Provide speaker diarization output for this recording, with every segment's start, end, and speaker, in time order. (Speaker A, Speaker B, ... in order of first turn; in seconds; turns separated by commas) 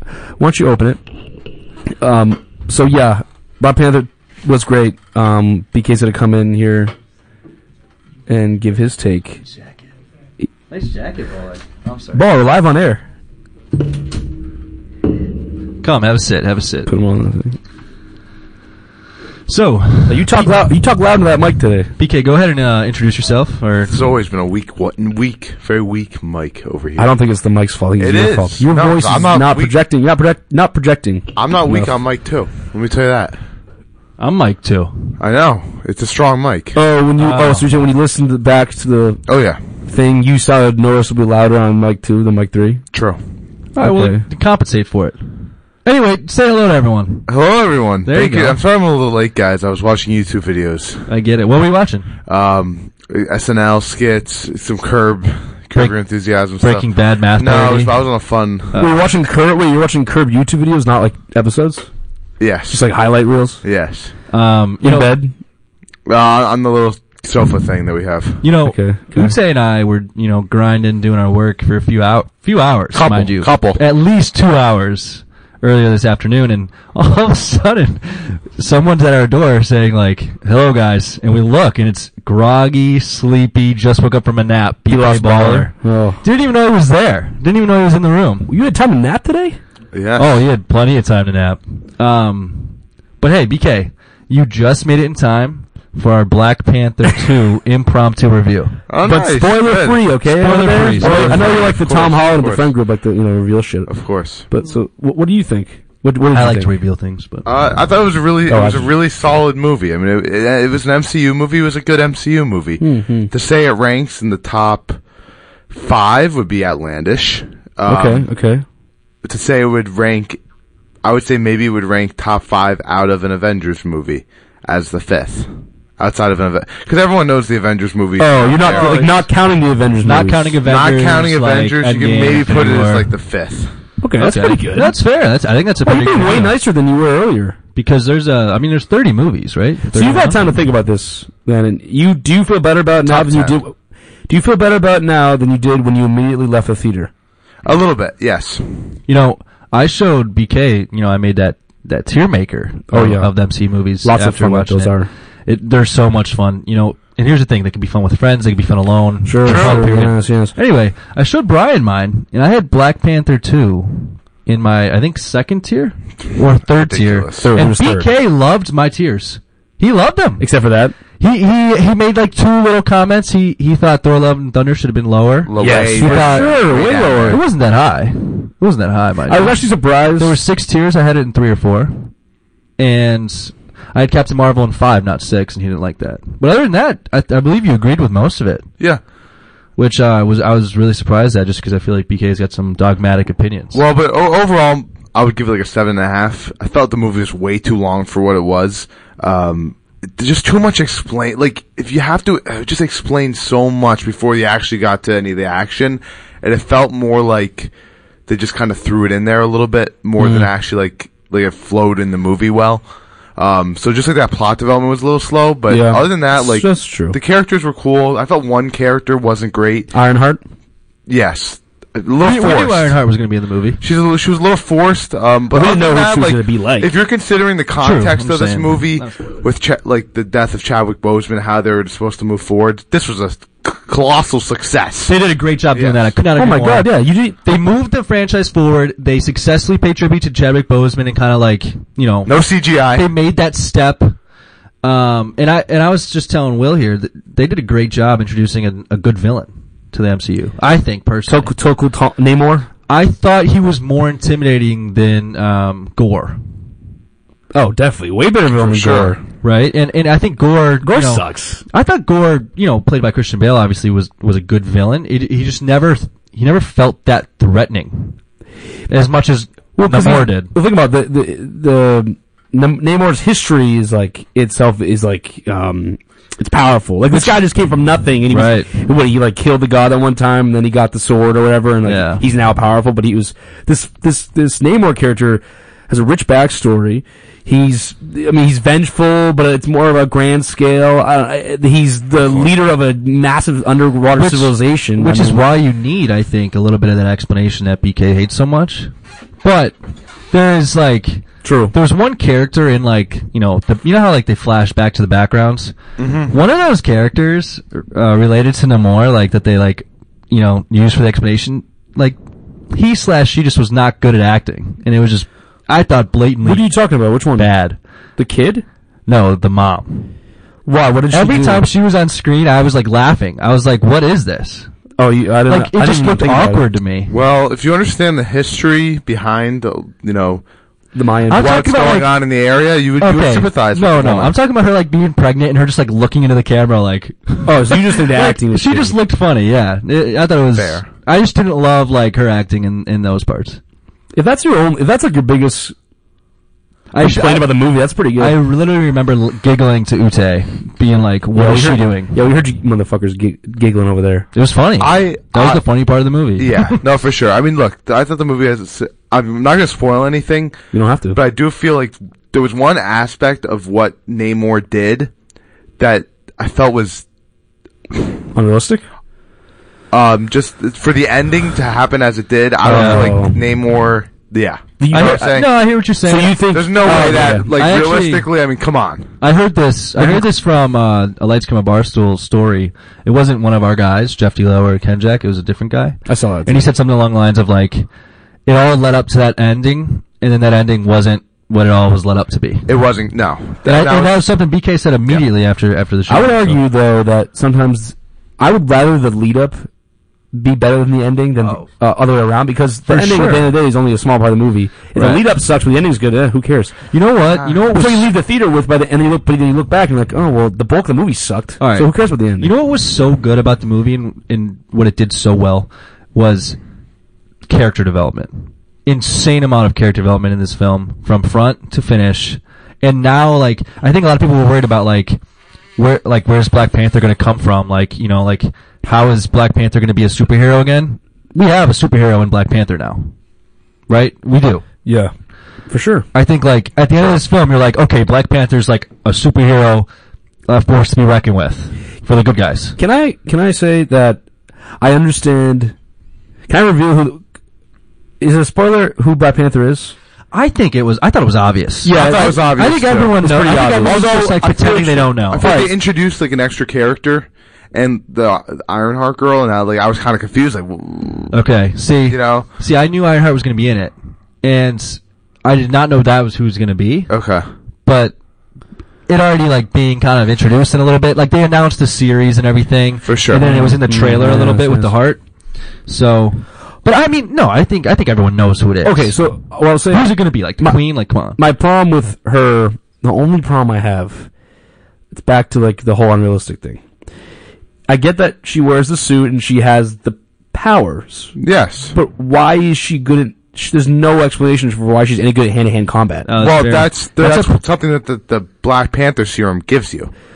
Speaker A: 0.4-1.0, Speaker A: 1.9-6.9, Speaker A: 8.3-9.4, Speaker B: 10.7-12.2, Speaker A: 12.1-13.0, Speaker B: 15.8-16.9, Speaker A: 16.9-17.6, Speaker B: 19.5-20.7, Speaker A: 20.1-21.9, Speaker B: 22.0-24.0, Speaker C: 23.9-27.1, Speaker A: 26.9-31.9, Speaker C: 28.0-29.7, Speaker C: 31.4-33.4, Speaker B: 34.2-35.1, Speaker C: 35.2-36.8, Speaker A: 36.7-39.2, Speaker B: 37.2-37.7, Speaker C: 39.3-39.6, Speaker A: 39.9-42.8, Speaker C: 42.9-43.2, Speaker B: 43.8-45.3, Speaker A: 43.8-44.2, Speaker B: 45.8-47.3, Speaker C: 47.3-51.0, Speaker B: 48.0-48.6, Speaker B: 51.1-52.1, Speaker C: 52.3-58.8, Speaker B: 56.6-58.0, Speaker A: 58.7-61.9, Speaker C: 62.4-62.8, Speaker A: 62.7-63.6, Speaker C: 63.6-64.1, Speaker B: 64.3-65.1, Speaker A: 64.8-65.3, Speaker C: 66.0-68.4, Speaker B: 68.4-88.5, Speaker A: 68.6-69.4, Speaker C: 72.9-73.8, Speaker A: 84.9-86.2, Speaker A: 88.5-89.6, Speaker C: 89.9-90.4, Speaker B: 90.2-98.8, Speaker C: 98.9-100.0, Speaker A: 99.0-103.9, Speaker B: 100.3-101.6, Speaker C: 101.0-102.7, Speaker C: 103.9-104.5, Speaker A: 104.5-106.7, Speaker B: 106.3-107.5, Speaker C: 107.5-115.0, Speaker A: 108.5-108.9, Speaker A: 112.8-113.3, Speaker C: 115.7-118.2, Speaker A: 117.8-118.6, Speaker C: 119.2-120.4, Speaker C: 121.0-129.2, Speaker A: 128.2-130.6, Speaker B: 128.6-129.1, Speaker B: 130.0-133.1, Speaker C: 130.7-133.7, Speaker A: 134.0-134.9, Speaker B: 134.2-136.6, Speaker A: 135.8-137.6, Speaker B: 137.8-140.6, Speaker A: 139.9-143.7, Speaker C: 143.1-143.6, Speaker A: 144.3-147.1, Speaker C: 147.6-148.6, Speaker B: 149.1-154.9, Speaker A: 152.9-153.3, Speaker A: 154.0-155.1, Speaker B: 155.5-170.4, Speaker A: 159.2-160.5, Speaker C: 159.4-159.8, Speaker C: 166.7-167.5, Speaker A: 167.4-168.1, Speaker A: 170.4-170.9, Speaker B: 171.2-176.6, Speaker C: 175.5-177.4, Speaker A: 175.6-177.4, Speaker B: 177.2-179.6, Speaker A: 179.3-180.4, Speaker B: 180.2-182.1, Speaker B: 182.8-188.7, Speaker B: 189.8-193.8, Speaker C: 193.7-207.7, Speaker C: 208.3-212.8, Speaker A: 210.2-210.5, Speaker C: 213.4-219.9, Speaker A: 215.7-217.2, Speaker A: 219.9-220.4, Speaker C: 221.1-222.9, Speaker B: 222.2-223.8, Speaker C: 223.8-235.1, Speaker A: 225.5-226.9, Speaker B: 227.8-229.2, Speaker B: 235.1-236.9, Speaker C: 235.7-236.1, Speaker A: 236.3-237.4, Speaker B: 237.4-242.3, Speaker C: 242.2-243.1, Speaker B: 242.9-244.2, Speaker B: 244.8-251.5, Speaker A: 251.3-252.7, Speaker B: 252.9-256.4, Speaker A: 257.5-259.2, Speaker C: 258.6-259.2, Speaker B: 259.4-268.2, Speaker A: 260.8-261.6, Speaker B: 268.9-270.5, Speaker A: 269.8-295.4, Speaker B: 278.3-278.7, Speaker B: 281.8-282.2, Speaker B: 294.2-298.9, Speaker B: 299.4-299.7, Speaker B: 300.3-305.7, Speaker A: 301.4-301.7, Speaker C: 306.0-306.3, Speaker B: 306.3-312.1, Speaker B: 312.7-316.6, Speaker A: 316.4-317.5, Speaker B: 317.4-317.8, Speaker A: 318.2-318.6, Speaker B: 319.1-320.1, Speaker A: 320.6-321.6, Speaker B: 321.1-324.7, Speaker A: 325.0-326.6, Speaker B: 325.5-327.1, Speaker C: 327.1-330.4, Speaker A: 330.9-331.7, Speaker B: 331.3-332.1, Speaker C: 331.3-334.3, Speaker B: 333.0-343.6, Speaker A: 337.4-339.0, Speaker C: 340.5-340.9, Speaker A: 344.1-345.7, Speaker B: 346.9-347.5, Speaker A: 347.0-348.4, Speaker B: 348.2-352.1, Speaker A: 351.3-354.3, Speaker B: 354.3-356.8, Speaker C: 354.8-355.6, Speaker C: 356.4-360.6, Speaker A: 360.7-361.2, Speaker C: 361.1-365.1, Speaker C: 365.8-367.0, Speaker A: 368.3-368.8, Speaker C: 369.9-375.5, Speaker A: 372.6-373.4, Speaker B: 372.6-373.2, Speaker A: 374.8-375.4, Speaker B: 374.9-376.4, Speaker A: 376.0-377.4, Speaker C: 376.5-379.1, Speaker B: 376.9-378.3, Speaker B: 379.2-387.9, Speaker A: 380.0-380.3, Speaker A: 386.1-386.7, Speaker B: 388.4-392.7, Speaker C: 392.7-394.2, Speaker B: 393.6-396.6, Speaker A: 396.1-399.7, Speaker A: 400.3-406.8, Speaker B: 401.4-401.7, Speaker B: 402.9-403.5, Speaker B: 404.9-405.2, Speaker B: 406.9-408.1, Speaker A: 407.7-412.5, Speaker B: 411.6-416.6, Speaker B: 417.5-425.2, Speaker B: 425.8-433.1, Speaker B: 433.9-434.6, Speaker A: 434.8-435.1, Speaker A: 435.7-436.1, Speaker B: 436.1-439.9, Speaker B: 440.5-442.8, Speaker A: 442.8-444.2, Speaker A: 444.8-445.7, Speaker A: 446.5-447.2, Speaker A: 448.2-449.9, Speaker B: 450.3-455.5, Speaker A: 451.8-454.1, Speaker C: 451.9-453.2, Speaker C: 453.7-461.3, Speaker A: 455.4-455.7, Speaker B: 461.3-467.1, Speaker C: 462.1-462.5, Speaker C: 467.1-467.5, Speaker B: 467.9-468.1, Speaker B: 469.1-475.2, Speaker C: 473.1-473.4, Speaker A: 473.3-474.9, Speaker B: 475.9-479.2, Speaker A: 478.8-480.8, Speaker B: 479.9-481.4, Speaker A: 481.4-484.3, Speaker A: 485.1-486.8, Speaker A: 487.9-491.3, Speaker C: 491.4-491.9, Speaker A: 491.9-496.3, Speaker B: 496.3-497.5, Speaker C: 496.4-500.1